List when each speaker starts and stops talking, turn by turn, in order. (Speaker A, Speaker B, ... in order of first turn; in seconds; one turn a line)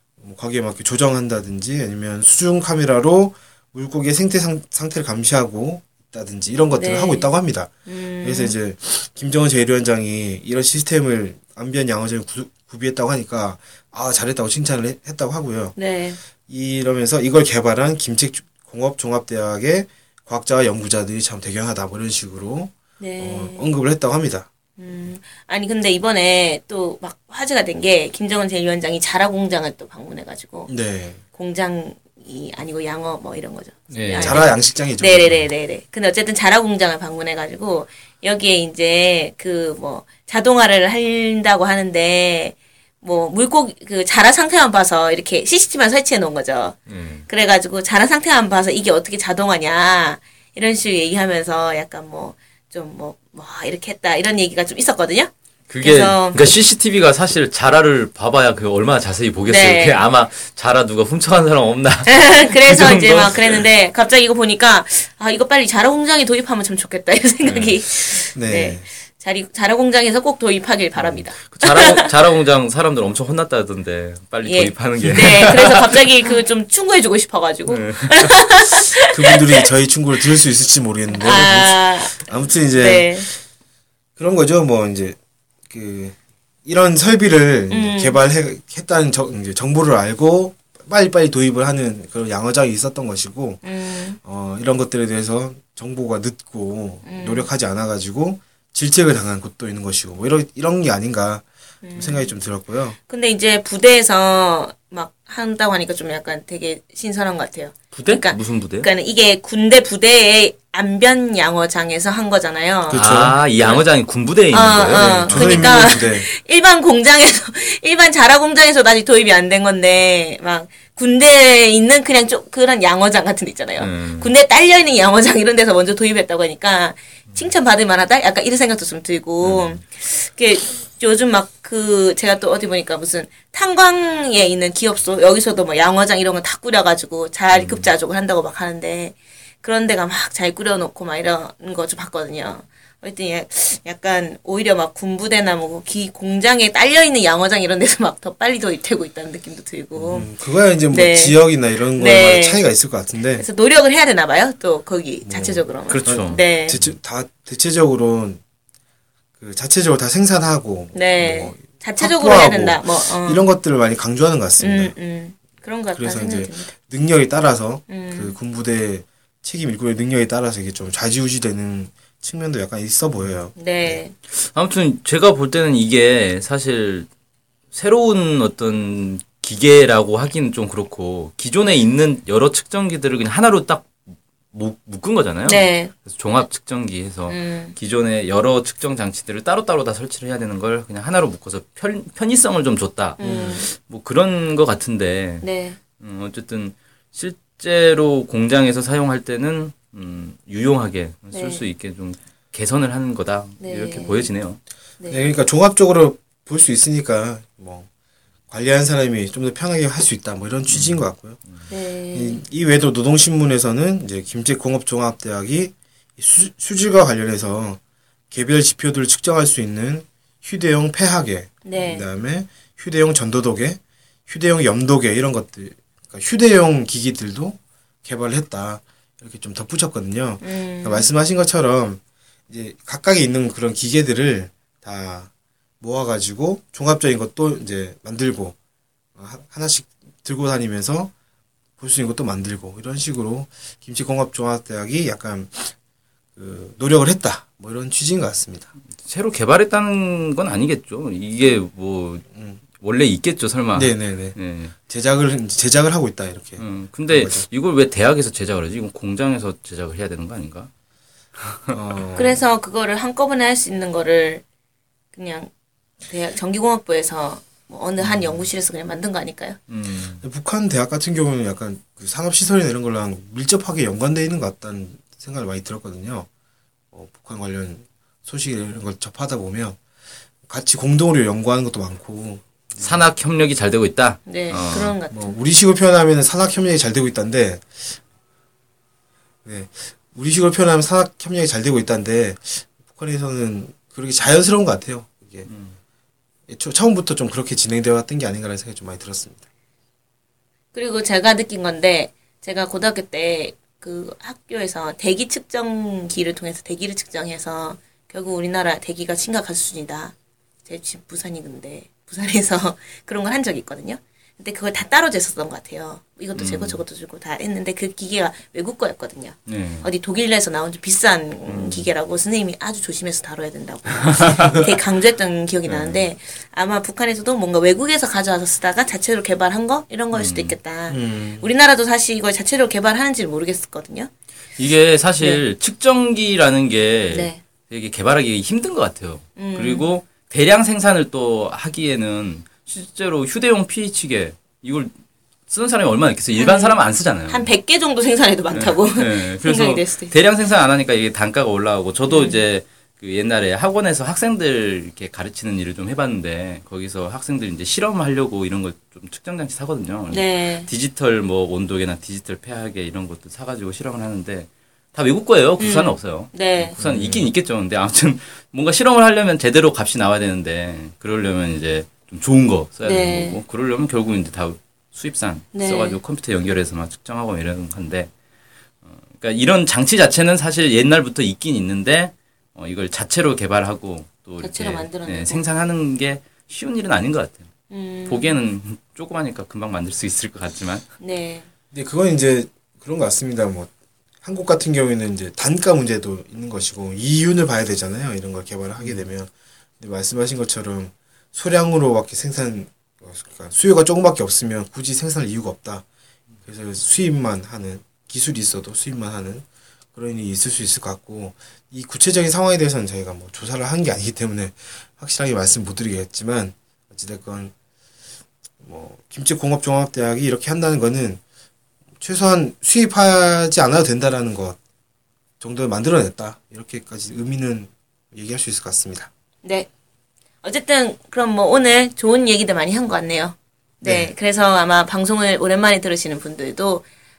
Speaker A: 0.2-15.8
Speaker B: 6.7-7.3
Speaker B: 7.8-8.5
Speaker B: 15.8-16.2
Speaker A: 16.4-24.5
Speaker B: 23.0-23.7
Speaker B: 24.8-30.7
Speaker A: 30.7-31.2
Speaker B: 31.3-56.4
Speaker C: 33.9-34.5
Speaker A: 34.0-35.5
Speaker C: 46.9-47.3
Speaker C: 55.7-63.6
Speaker B: 59.5-60.0
Speaker B: 62.0-72.1
Speaker C: 67.4-67.8
Speaker A: 68.3-68.9
Speaker C: 71.0-76.0
Speaker B: 74.4-79.4
Speaker C: 77.7-78.4
Speaker A: 79.1-83.4
Speaker B: 81.1-82.2
Speaker B: 82.7-83.3
Speaker A: 84.2-85.2
Speaker A: 85.7-93.6
Speaker B: 87.7-88.2
Speaker B: 93.6-94.2
Speaker A: 94.2-103.0
Speaker B: 97.0-97.5
Speaker B: 101.8-102.3
Speaker B: 103.1-113.8
Speaker C: 107.9-108.9
Speaker A: 112.9-113.6
Speaker C: 112.9-115.8
Speaker B: 114.5-150.3
Speaker A: 114.7-116.3
Speaker C: 123.8-124.3
Speaker C: 129.4-129.8
Speaker C: 137.5-137.9
Speaker A: 149.9-153.4
Speaker B: 150.9-152.6
Speaker B: 153.3-156.8
Speaker A: 155.2-158.4
Speaker C: 155.9-156.9
Speaker A: 159.4-164.9
Speaker B: 160.9-163.4
Speaker B: 164.6-166.7
Speaker A: 165.9-174.0
Speaker B: 167.9-168.3
Speaker B: 173.6-174.2
Speaker C: 174.3-177.1
Speaker C: 177.7-195.4
Speaker B: 185.4-185.9
Speaker B: 187.3-187.7
Speaker B: 193.2-193.7
Speaker B: 195.4-195.8
Speaker C: 196.0-204.6
Speaker B: 201.3-201.7
Speaker B: 203.6-204.3
Speaker B: 205.0-205.3
Speaker A: 205.1-207.9
Speaker A: 208.5-211.4
Speaker C: 210.7-211.6
Speaker B: 211.7-212.4
Speaker A: 212.1-217.8
Speaker A: 218.3-235.3
Speaker B: 221.6-222.1
Speaker B: 230.4-231.1
Speaker A: 235.8-238.6
Speaker A: 239.2-241.1
Speaker A: 241.8-245.7
Speaker A: 246.3-248.7
Speaker C: 249.0-252.2
Speaker A: 252.3-252.6
Speaker C: 252.8-254.7
Speaker A: 253.7-257.5
Speaker C: 256.6-260.7
Speaker C: 261.4-261.8
Speaker A: 261.7-262.4
Speaker B: 262.1-264.4
Speaker B: 265.1-265.5
Speaker B: 266.0-269.6
Speaker A: 268.0-268.4
Speaker C: 269.7-270.2
Speaker A: 270.2-276.3
Speaker A: 276.9-279.8
Speaker A: 280.4-283.0
Speaker C: 282.8-285.0
Speaker B: 284.2-285.4
Speaker A: 285.1-288.0
Speaker A: 289.4-295.5
Speaker C: 295.4-295.8
Speaker A: 296.5-299.4
Speaker B: 300.7-310.1
Speaker B: 310.6-334.1
Speaker C: 316.3-316.8
Speaker C: 319.5-319.9
Speaker C: 321.4-321.9
Speaker C: 324.1-324.6
Speaker C: 325.6-326.1
Speaker C: 330.1-330.6
Speaker A: 330.9-331.5
Speaker C: 334.6-344.9
Speaker B: 337.1-337.4
Speaker B: 339.4-339.9
Speaker C: 345.5-347.5
Speaker B: 346.3-350.1
Speaker C: 348.5-378.1
Speaker B: 352.1-352.4
Speaker B: 360.1-360.7
Speaker B: 365.6-366.8
Speaker A: 366.8-367.2
Speaker B: 372.8-373.4
Speaker B: 375.5-376.0
Speaker C: 378.8-387.5
Speaker B: 384.4-385.4
Speaker B: 387.7-388.4
Speaker C: 388.1-390.9
Speaker B: 391.0-391.5
Speaker A: 391.7-393.7
Speaker A: 394.2-405.8
Speaker C: 398.8-399.1
Speaker A: 406.4-417.5
Speaker A: 418.6-421.2
Speaker A: 422.0-424.6
Speaker A: 425.4-429.1
Speaker B: 429.4-429.7
Speaker B: 430.4-436.9
Speaker A: 433.8-434.1